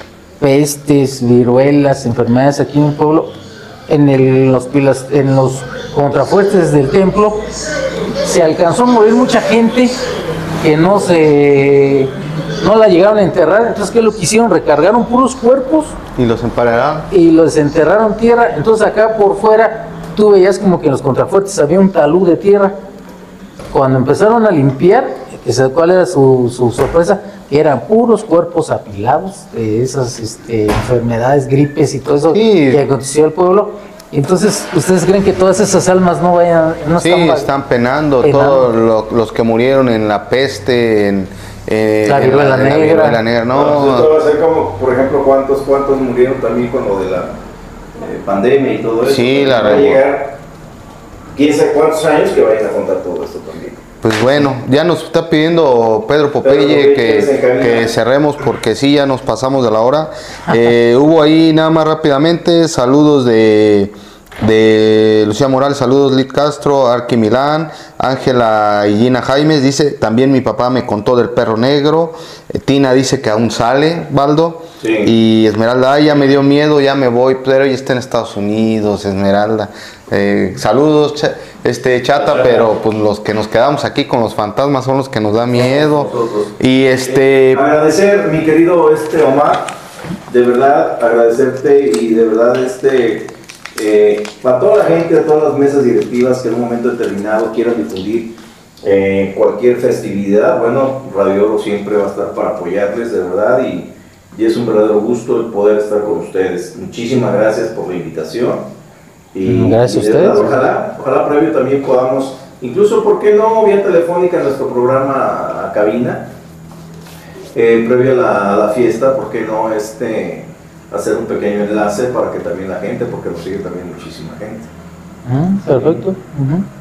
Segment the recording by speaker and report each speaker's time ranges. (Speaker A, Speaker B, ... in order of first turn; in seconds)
Speaker A: 0.4-3.3, 3.9-7.4, 8.2-9.9, 10.6-16.0, 17.1-22.8, 23.7-37.5, 38.2-38.7, 42.0-43.2, 109.4-110.5, 125.2-126.7
Speaker B: 16.1-17.1, 32.3-32.8, 37.0-44.1, 49.0-50.0, 54.0-87.6
Speaker C: 43.5-47.4, 48.0-50.4, 51.3-53.8, 56.4-57.9, 74.8-75.1, 82.1-82.7, 85.5-86.5, 87.1-89.7, 90.3-108.7, 109.3-116.3, 117.5-124.7, 125.7-126.0